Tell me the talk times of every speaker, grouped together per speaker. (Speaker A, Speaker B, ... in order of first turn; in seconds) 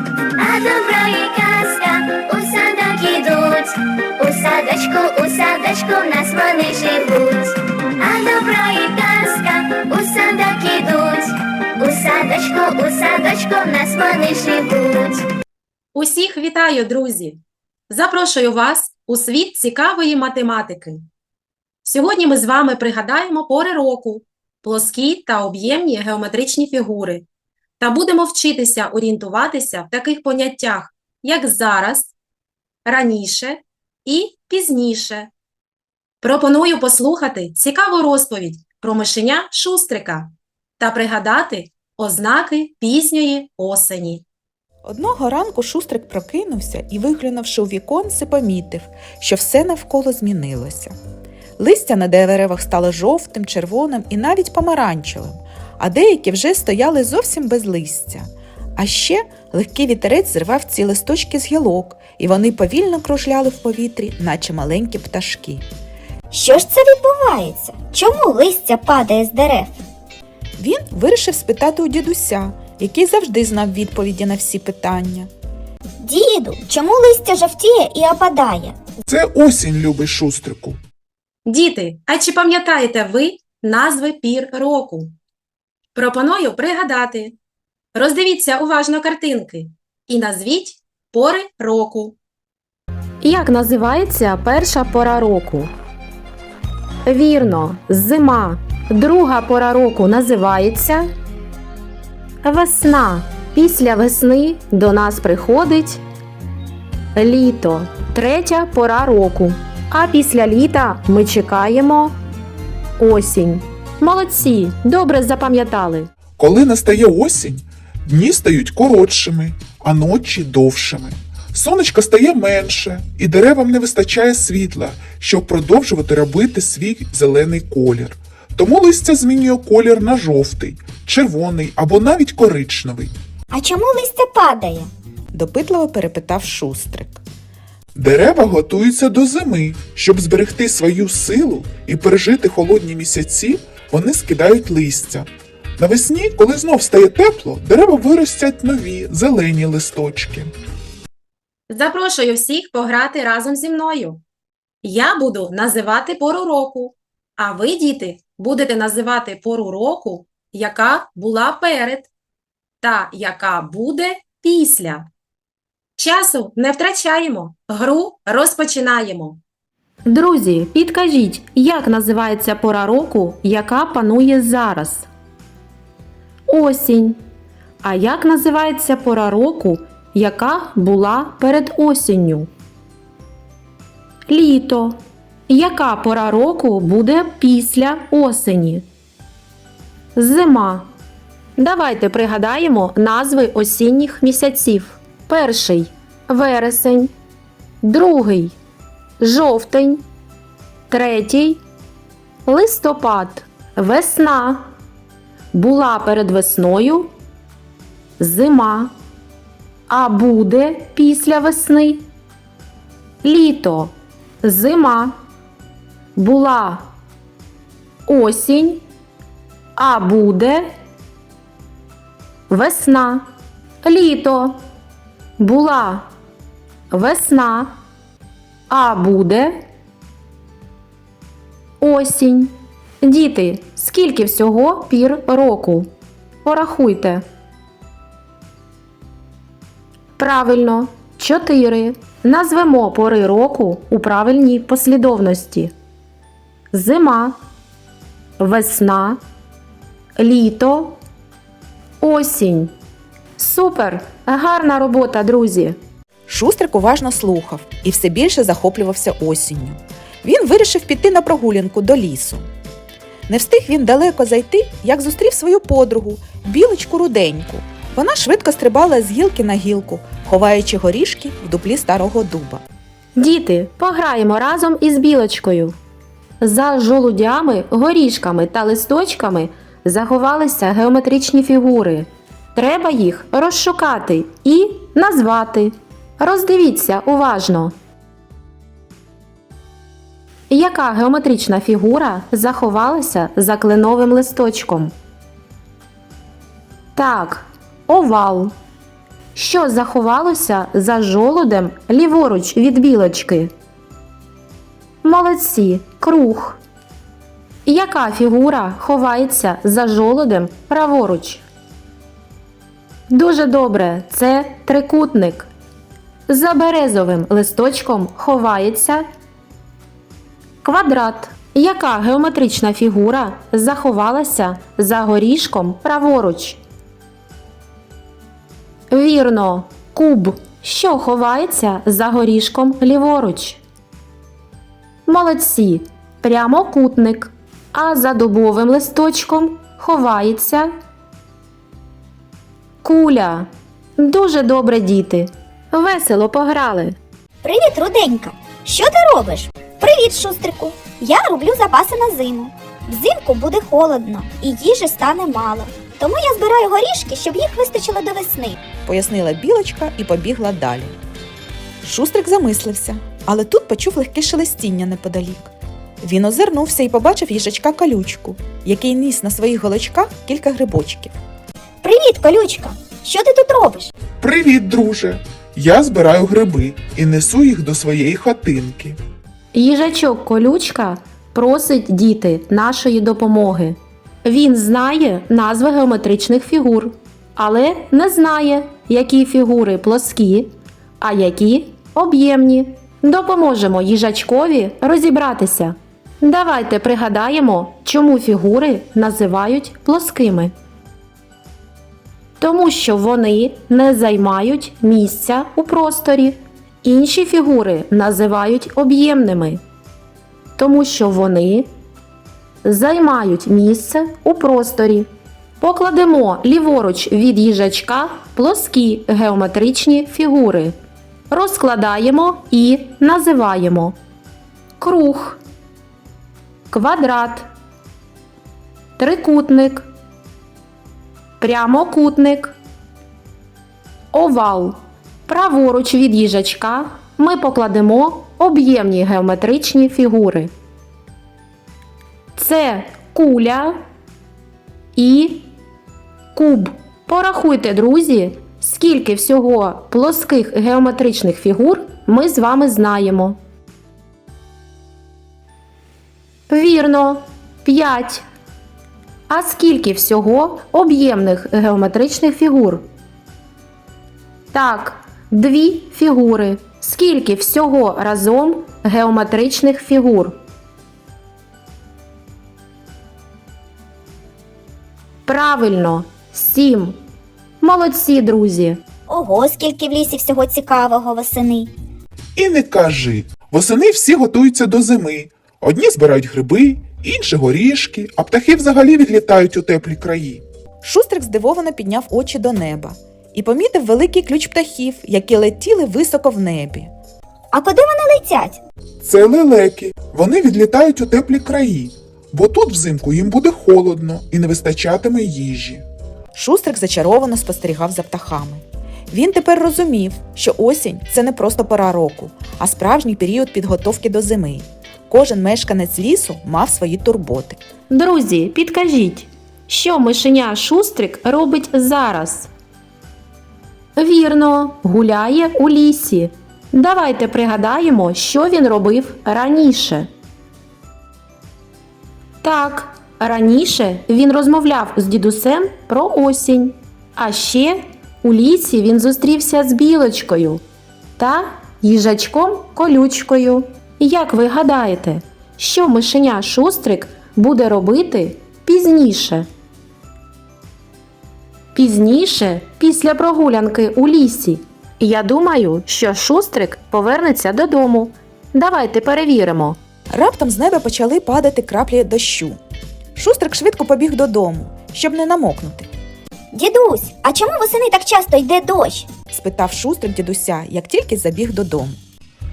Speaker A: 0.4-15.2
Speaker B: 15.9-21.1, 21.8-27.2, 27.8-32.1, 32.8-35.3, 36.2-44.2, 81.4-85.1, 85.9-87.3, 87.9-92.2, 93.2-95.7, 97.0-101.0, 102.4-106.0, 107.1-112.2, 113.0-116.1, 151.7-154.2, 154.8-162.1, 162.8-165.1, 166.0-169.4, 170.1-175.1, 176.5-177.2, 177.8-182.5, 184.3-188.8, 190.1-190.9, 191.6-197.1, 197.8-198.6, 199.2-200.0, 200.9-201.6, 202.4-204.7, 205.5-207.1, 208.2-208.9, 209.9-212.0, 213.2-215.2, 216.1-216.8, 218.1-218.8, 219.8-220.6, 222.5-223.3, 223.8-224.6, 225.4-226.1, 226.9-227.8, 228.7-229.6, 231.8-235.9, 236.4-237.2, 240.2-245.7, 246.7-247.4, 248.4-249.2, 250.2-251.0, 252.0-252.7, 253.4-255.8, 273.1-275.7, 276.4-287.7, 290.5-294.9, 296.9-298.5, 299.3-303.5, 305.0-306.6, 307.6-311.4, 313.1-315.5, 316.3-319.0, 320.6-326.6, 328.9-333.6, 335.1-340.7, 342.8-347.0, 379.5-400.5, 402.4-409.6, 410.6-411.7, 412.6-415.1, 415.6-420.7, 421.3-423.9, 424.8-425.4, 426.7-427.5, 429.0-429.9, 431.4-432.6, 434.1-440.5, 442.4-443.8, 444.9-445.5, 446.3-453.4, 456.5-458.2, 459.3-462.8, 464.5-470.4, 475.2-477.0, 477.6-478.8, 517.9-522.5, 524.0-530.1, 532.4-540.6, 541.2-549.5, 551.7-559.8
Speaker C: 44.9-50.9, 51.6-65.6, 70.6-75.3, 135.3-137.2, 256.3-262.4, 263.3-272.6, 358.9-360.9, 361.8-371.1, 490.8-496.9, 506.3-517.6, 560.1-562.6, 563.1-565.9, 569.3-572.0
Speaker D: 66.3-69.8, 76.0-78.8, 133.5-134.9, 347.4-358.6, 371.8-373.9, 479.1-481.7, 497.5-498.6, 566.5-569.1
Speaker E: 79.1-80.8, 116.4-133.1, 137.9-150.5, 374.2-379.0, 482.3-490.4, 499.0-505.8